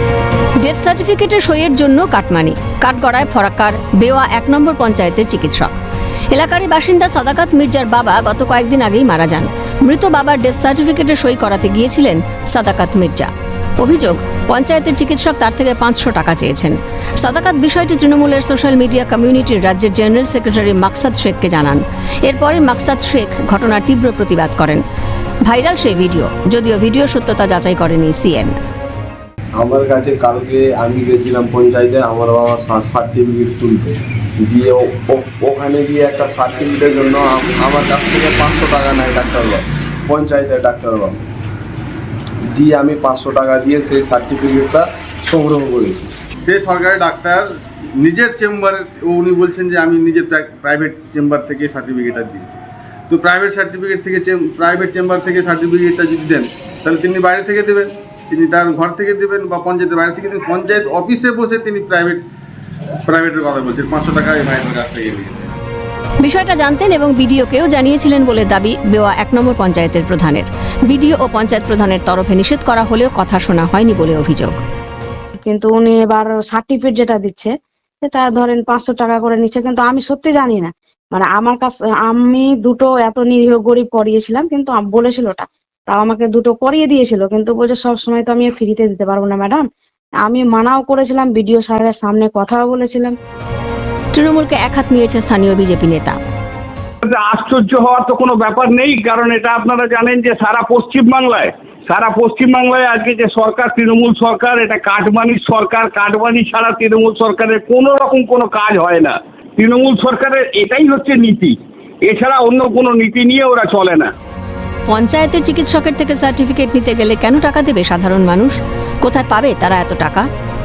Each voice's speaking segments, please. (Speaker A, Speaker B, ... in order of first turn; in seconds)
Speaker A: 0.6-5.8, 6.3-24.8, 25.5-28.6, 66.2-74.6, 94.1-96.2, 114.9-120.2
Speaker B: 29.6-41.2, 42.5-46.1
Speaker C: 46.4-47.5, 48.0-62.2, 63.1-65.5
Speaker D: 75.4-77.5, 78.0-89.6, 90.2-93.2
Speaker E: 97.0-114.1